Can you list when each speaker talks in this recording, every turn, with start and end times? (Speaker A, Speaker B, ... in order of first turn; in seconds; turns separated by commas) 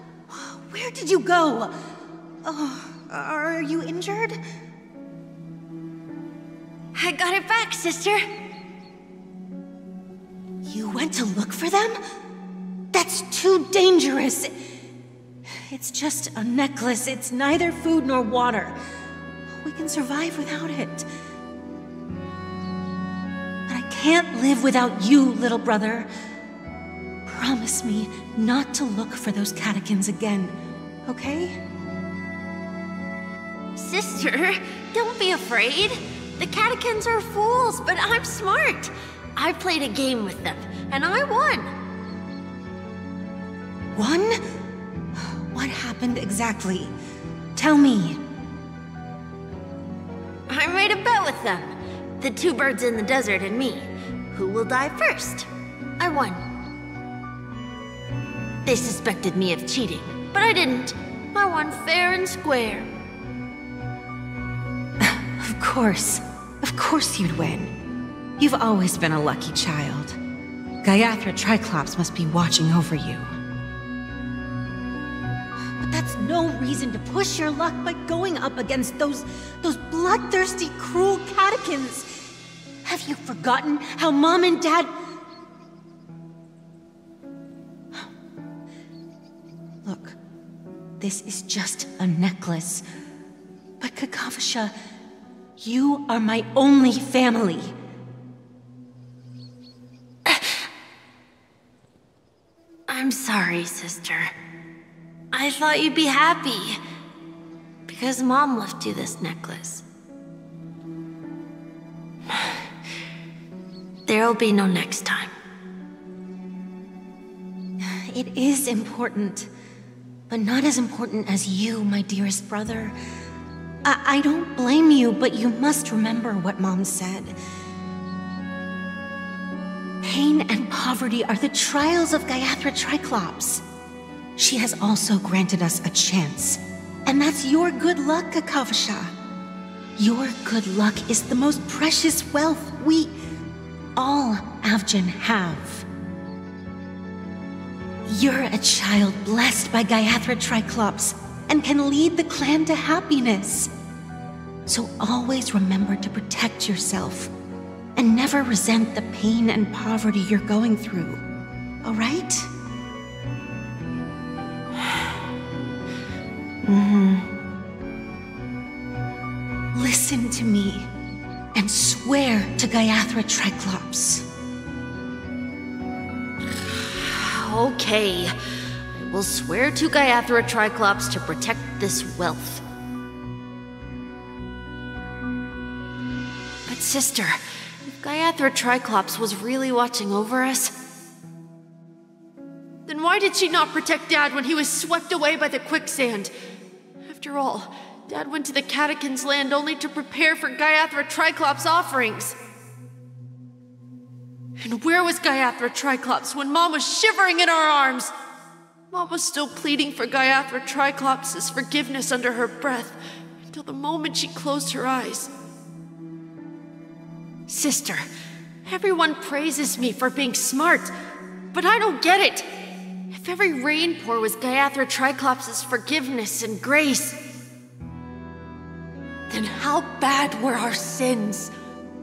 Speaker A: 0.3-1.7, Speaker A: 2.4-4.4, Speaker B: 6.9-8.2, Speaker A: 10.7-12.0, Speaker A: 12.9-14.5, Speaker A: 15.7-18.8, Speaker A: 19.5-21.1, Speaker A: 23.7-26.1, Speaker A: 27.3-31.6, Speaker B: 33.8-41.7, Speaker A: 44.0-44.4, Speaker A: 45.2-46.9, Speaker A: 47.5-48.2, Speaker B: 50.5-55.5, Speaker B: 56.0-56.4, Speaker B: 58.6-62.9, Speaker A: 65.0-67.7, Speaker A: 68.4-70.2, Speaker A: 70.8-73.3, Speaker A: 75.8-82.1, Speaker A: 82.8-84.9, Speaker A: 89.8-90.2, Speaker A: 91.0-92.8, Speaker A: 93.8-94.7, Speaker A: 95.6-97.7, Speaker B: 102.9-104.3, Speaker B: 105.3-106.8, Speaker B: 107.9-109.8, Speaker B: 114.1-115.3, Speaker A: 117.8-119.5, Speaker A: 120.3-123.0, Speaker A: 123.8-127.3, Speaker A: 130.0-133.6, Speaker A: 134.4-139.1, Speaker A: 140.0-143.1, Speaker A: 144.0-145.9, Speaker A: 148.1-153.7, Speaker A: 154.7-157.3, Speaker A: 158.0-161.2, Speaker A: 161.8-162.5, Speaker B: 166.6-167.3, Speaker A: 169.7-170.9, Speaker A: 171.5-174.3, Speaker B: 176.9-178.3, Speaker B: 178.9-182.6, Speaker B: 186.7-190.7, Speaker B: 192.9-196.3, Speaker B: 197.0-202.4, Speaker B: 204.6-208.1, Speaker B: 208.9-215.3, Speaker B: 217.5-218.1, Speaker B: 218.7-220.9, Speaker B: 221.5-222.5, Speaker B: 223.1-227.2, Speaker B: 229.3-231.5